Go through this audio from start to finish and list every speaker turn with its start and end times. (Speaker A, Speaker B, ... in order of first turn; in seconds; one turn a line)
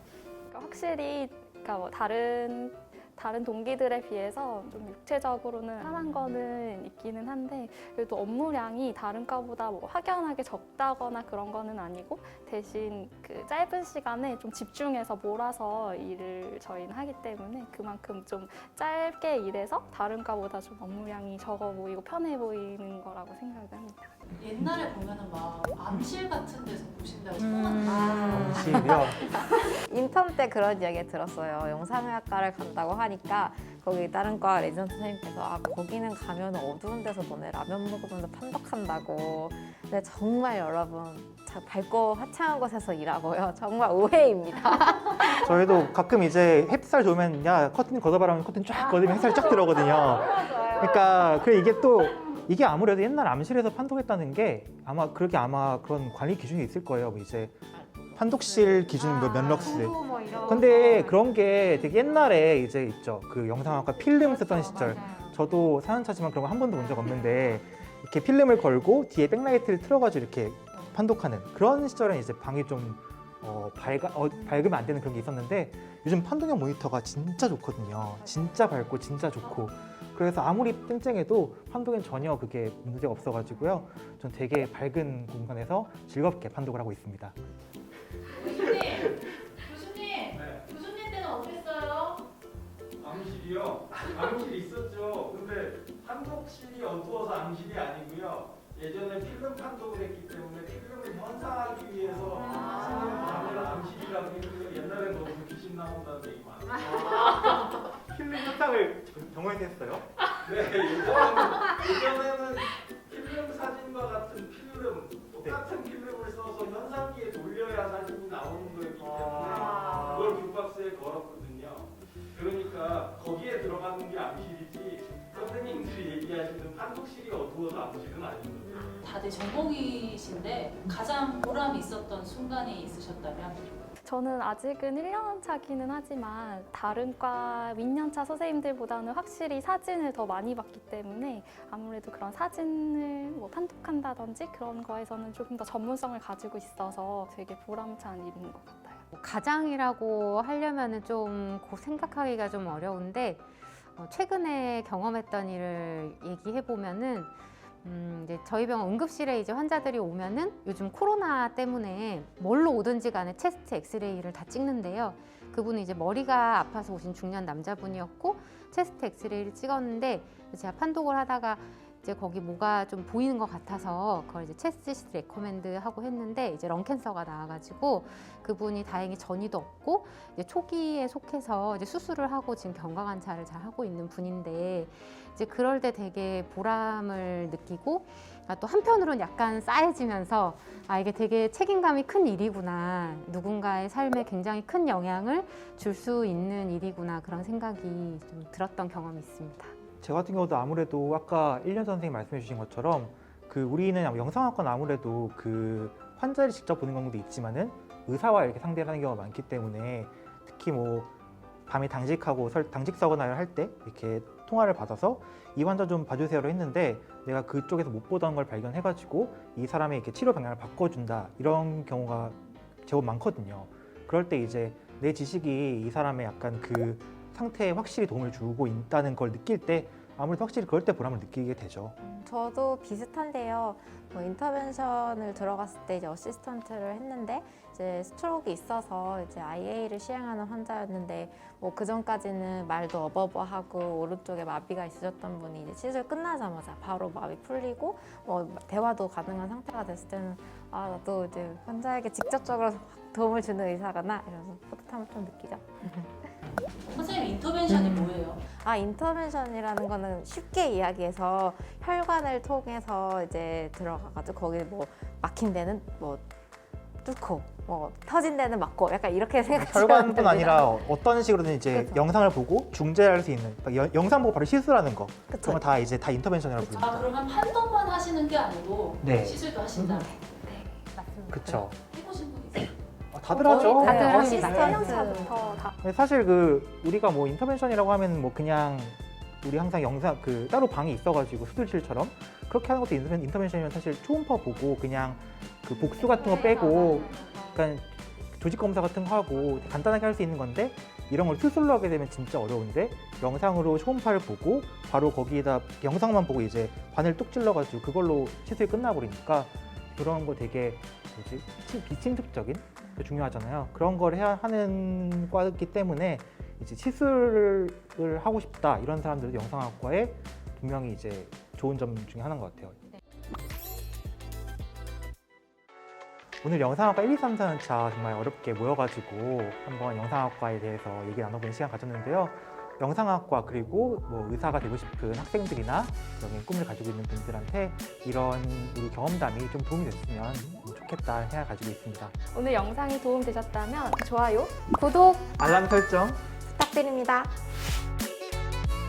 Speaker A: 0.5-24.2
Speaker B: 24.4-28.9
Speaker C: 27.8-45.5
Speaker D: 27.9-29.2
Speaker D: 45.2-57.6
Speaker C: 48.8-51.0
Speaker D: 58.2-87.3
Speaker C: 58.9-61.2
Speaker E: 59.2-61.1
Speaker B: 64.5-64.9
Speaker E: 64.9-65.3
Speaker B: 79.4-79.7
Speaker B: 88.3-92.2
Speaker F: 90.3-90.7
Speaker F: 93.0-107.4
Speaker B: 102.6-103.3
Speaker D: 108.1-110.0
Speaker F: 110.4-128.8
Speaker B: 129.0-133.7
Speaker A: 134.0-149.0
Speaker E: 149.1-199.7
Speaker D: 200.0-211.1
Speaker D: 211.7-232.0
Speaker C: 232.0-256.3
Speaker B: 256.9-258.4
Speaker C: 257.9-266.2
Speaker C: 267.0-270.8
Speaker D: 269.5-277.1
Speaker C: 275.3-275.6
Speaker B: 276.6-280.1
Speaker D: 279.0-280.1
Speaker E: 280.9-281.4
Speaker D: 281.3-281.8
Speaker B: 281.9-282.7
Speaker D: 283.1-284.9
Speaker A: 283.3-285.8
Speaker C: 283.3-285.5
Speaker E: 283.8-285.4
Speaker D: 285.8-322.8
Speaker A: 296.0-297.5
Speaker D: 326.4-342.1
Speaker A: 342.3-345.1
Speaker D: 345.3-346.2
Speaker C: 346.5-347.3